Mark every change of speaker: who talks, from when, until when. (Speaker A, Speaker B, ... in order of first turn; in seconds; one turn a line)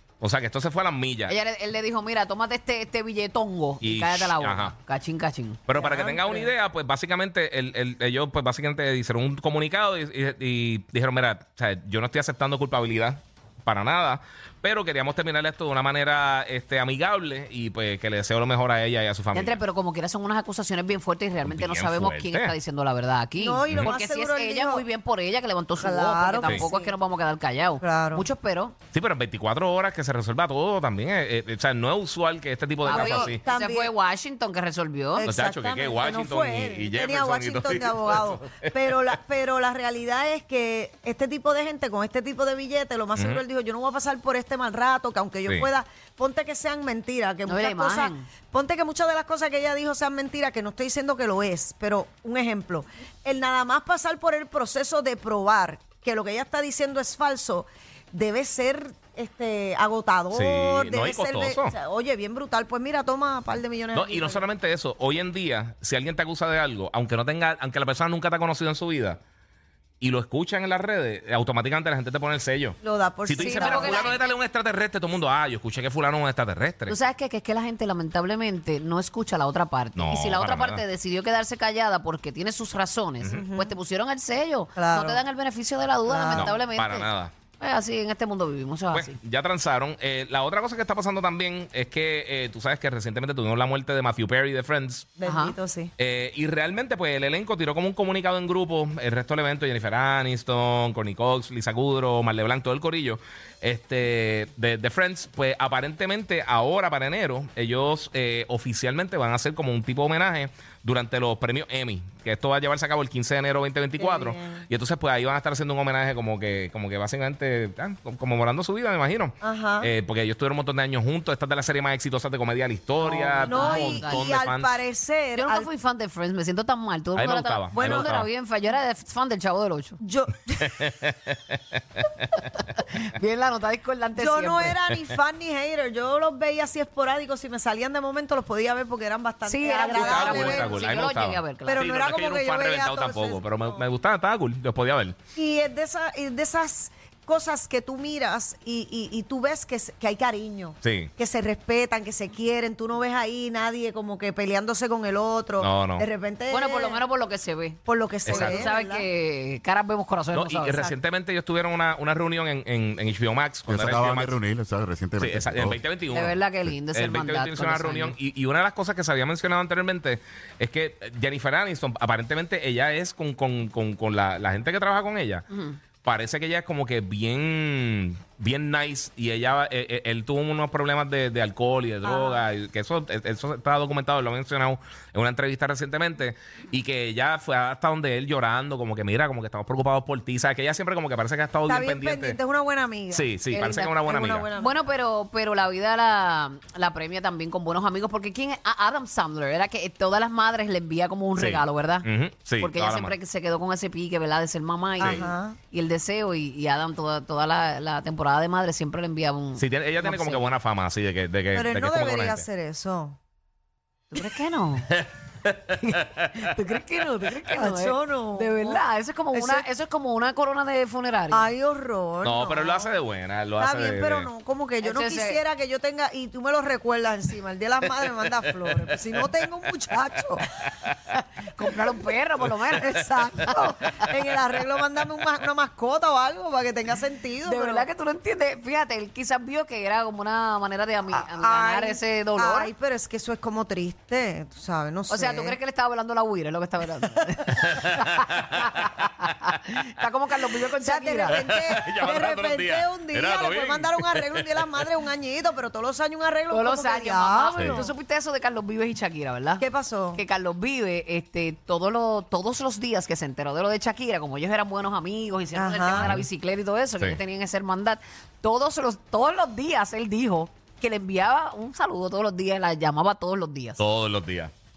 Speaker A: 0.2-1.3
Speaker B: 1.3-5.6
Speaker A: 3.8-4.7
Speaker A: 5.7-19.6
Speaker C: 5.7-6.5
Speaker B: 19.3-28.7
Speaker A: 21.4-22.5
Speaker C: 23.4-24.9
Speaker A: 23.7-23.9
Speaker C: 25.8-26.9
Speaker C: 27.8-28.3
Speaker A: 28.9-33.4
Speaker B: 32.8-35.3
Speaker C: 32.9-33.9
Speaker C: 35.1-64.5
Speaker A: 35.2-39.0
Speaker A: 43.1-43.4
Speaker B: 47.5-48.3
Speaker A: 60.3-61.7
Speaker A: 63.9-69.2
Speaker A: 70.0-77.0
Speaker C: 72.8-74.2
Speaker B: 73.4-74.2
Speaker B: 76.9-87.1
Speaker A: 80.0-80.8
Speaker C: 83.3-83.8
Speaker C: 84.8-85.2
Speaker C: 86.0-86.5
Speaker A: 86.3-87.3
Speaker B: 87.6-89.1
Speaker A: 88.9-95.1
Speaker C: 95.2-95.9
Speaker B: 95.2-95.5
Speaker A: 96.0-124.8
Speaker C: 114.0-114.7
Speaker C: 119.4-119.9
Speaker B: 123.0-124.3
Speaker C: 123.4-125.7
Speaker B: 125.3-130.0
Speaker A: 127.2-128.3
Speaker C: 127.7-128.2
Speaker C: 130.0-130.8
Speaker A: 130.6-132.2
Speaker B: 132.6-134.8
Speaker C: 134.2-140.9
Speaker B: 139.5-141.9
Speaker A: 139.9-145.2
Speaker C: 141.6-143.8
Speaker C: 145.3-157.0
Speaker A: 150.8-151.1
Speaker A: 155.6-156.1
Speaker B: 156.5-160.9
Speaker C: 157.8-159.1
Speaker A: 158.2-158.7
Speaker A: 160.3-164.4
Speaker D: 163.7-165.8
Speaker A: 165.2-175.4
Speaker B: 166.1-168.2
Speaker B: 175.5-175.8
Speaker A: 176.0-192.4
Speaker C: 182.0-182.4
Speaker C: 191.7-194.8
Speaker A: 193.1-194.5
Speaker B: 193.5-194.0
Speaker B: 194.6-210.5
Speaker A: 201.3-203.1
Speaker C: 205.0-205.6
Speaker A: 209.6-212.5
Speaker C: 211.5-213.2
Speaker B: 214.1-214.9
Speaker A: 214.9-216.4
Speaker B: 215.8-221.5
Speaker C: 217.3-219.7
Speaker C: 221.3-222.9
Speaker A: 222.2-224.3
Speaker C: 223.6-230.4
Speaker B: 224.8-225.4
Speaker A: 228.0-229.3
Speaker A: 229.9-231.1
Speaker B: 231.5-233.7
Speaker C: 232.8-237.9
Speaker B: 237.4-242.7
Speaker C: 241.1-245.6
Speaker B: 245.1-251.4
Speaker A: 247.6-249.1
Speaker C: 250.8-257.9
Speaker A: 251.3-254.9
Speaker B: 256.5-273.8
Speaker A: 257.6-257.9
Speaker C: 259.6-260.2
Speaker C: 265.5-266.1
Speaker A: 266.0-266.3
Speaker A: 273.8-274.5